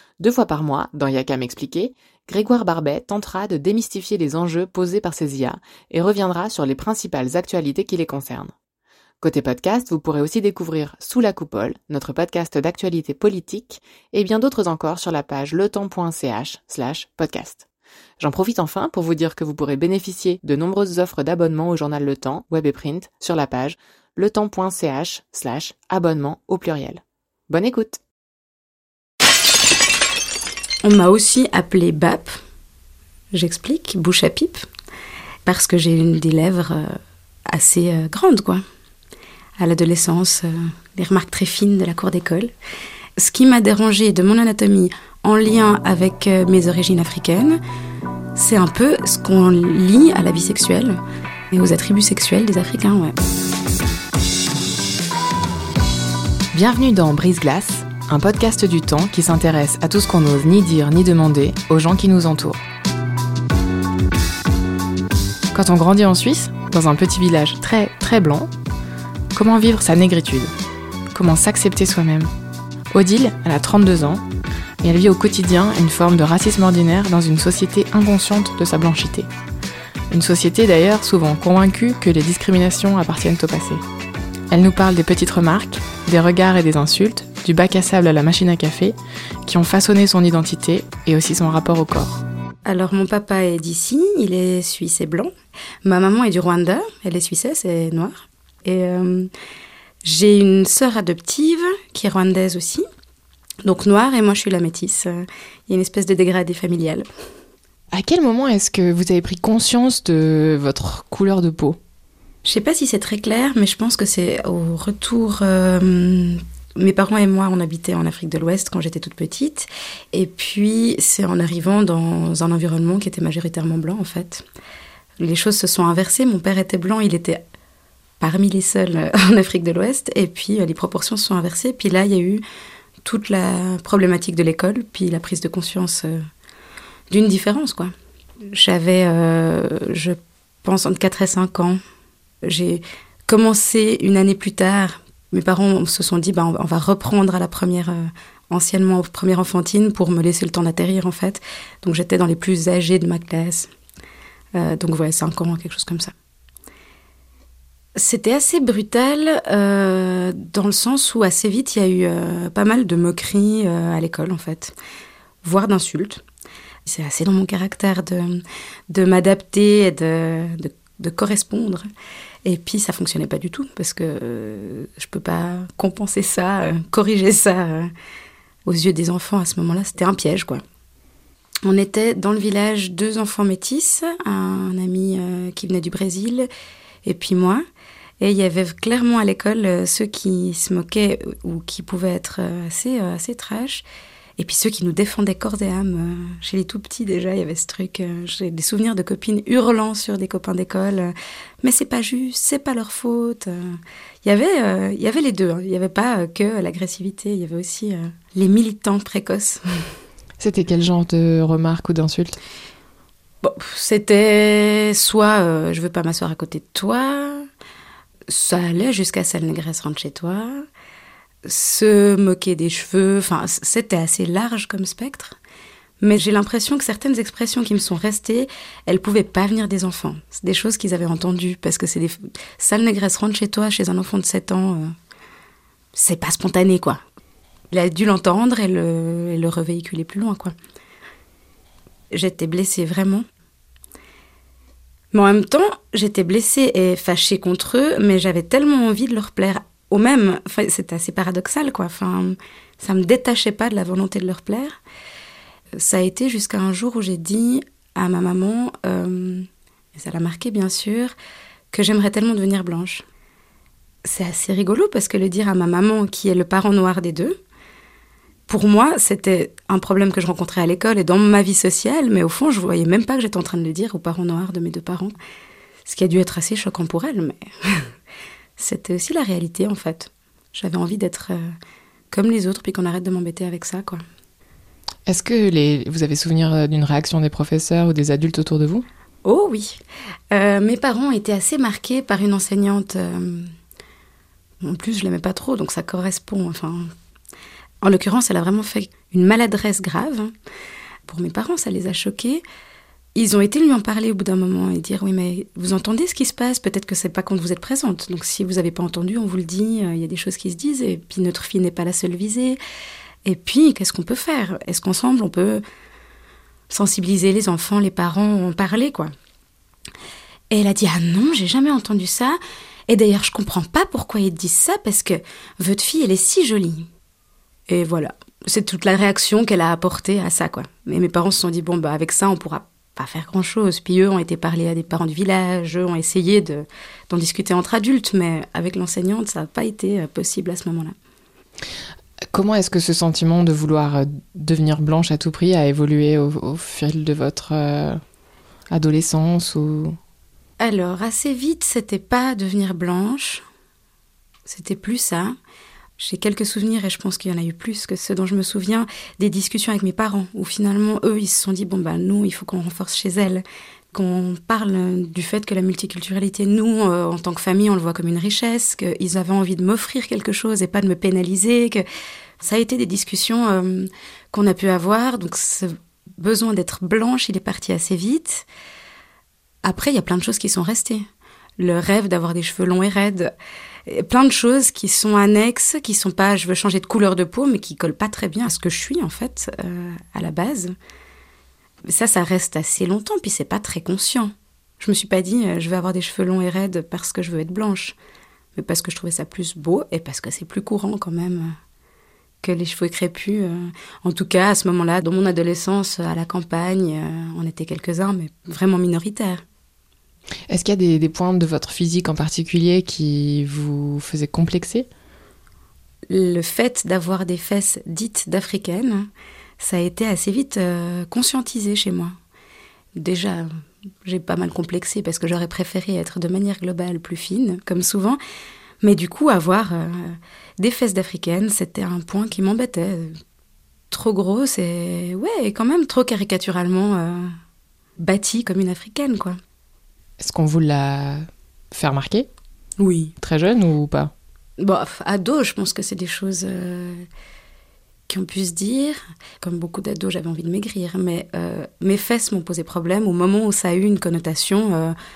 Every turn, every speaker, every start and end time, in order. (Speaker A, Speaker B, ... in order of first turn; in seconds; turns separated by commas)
Speaker A: 0.2-8.5, Speaker A: 9.2-17.6, Speaker A: 18.2-28.0, Speaker B: 30.8-32.4, Speaker B: 33.3-34.6, Speaker B: 35.5-38.6, Speaker B: 39.6-42.5, Speaker B: 43.2-47.6, Speaker B: 48.3-51.0, Speaker B: 51.5-53.1, Speaker A: 56.5-62.6, Speaker A: 65.5-68.5, Speaker A: 69.3-70.5, Speaker A: 71.1-72.3, Speaker A: 72.9-74.2, Speaker A: 74.8-79.3, Speaker A: 80.1-83.8, Speaker A: 84.5-92.2, Speaker B: 92.7-95.3, Speaker B: 95.8-99.3, Speaker B: 100.0-102.8, Speaker B: 103.6-107.0, Speaker A: 107.9-111.8, Speaker B: 112.4-124.4, Speaker B: 125.2-127.4, Speaker B: 128.2-132.4, Speaker B: 133.0-136.2, Speaker B: 137.1-137.9, Speaker B: 138.5-141.8, Speaker B: 142.4-153.7, Speaker B: 154.5-156.1, Speaker B: 157.9-164.7, Speaker B: 165.4-166.2, Speaker B: 166.8-171.8, Speaker B: 172.4-177.9, Speaker B: 178.7-180.6, Speaker B: 181.6-186.5, Speaker B: 187.0-187.6, Speaker B: 188.2-193.8, Speaker B: 194.4-209.9, Speaker A: 210.4-212.4, Speaker B: 213.4-217.5, Speaker B: 218.3-220.7, Speaker B: 221.4-225.4, Speaker B: 226.0-234.9, Speaker B: 235.9-237.0, Speaker B: 237.7-240.5, Speaker B: 242.1-243.2, Speaker B: 245.1-254.8, Speaker B: 255.8-261.1, Speaker B: 261.7-263.1, Speaker B: 264.0-267.4, Speaker B: 268.5-275.1, Speaker B: 275.8-277.9, Speaker B: 278.6-281.5, Speaker B: 282.1-284.0, Speaker A: 285.1-288.8, Speaker B: 289.2-289.8, Speaker B: 290.3-293.5, Speaker B: 294.6-296.9, Speaker B: 297.8-300.3, Speaker B: 301.1-302.4, Speaker B: 303.1-312.6, Speaker B: 313.2-315.6, Speaker B: 316.7-319.1, Speaker B: 320.5-322.4, Speaker B: 322.9-326.9, Speaker B: 327.7-340.9, Speaker A: 342.3-348.0, Speaker A: 348.7-350.0, Speaker B: 350.6-353.4, Speaker B: 354.4-355.4, Speaker B: 356.0-371.8, Speaker B: 372.4-378.4, Speaker B: 379.6-381.1, Speaker B: 381.6-383.3, Speaker B: 383.9-390.7, Speaker B: 391.9-397.9, Speaker B: 398.5-401.5, Speaker B: 402.4-409.4, Speaker A: 410.5-414.9, Speaker B: 416.1-419.1, Speaker B: 419.6-422.1, Speaker B: 422.9-423.5, Speaker B: 424.0-428.2, Speaker B: 428.8-433.1, Speaker B: 433.9-437.3, Speaker B: 438.0-439.4, Speaker A: 440.2-442.3, Speaker B: 442.8-443.1, Speaker A: 443.2-444.1, Speaker B: 444.6-447.1, Speaker B: 448.1-454.9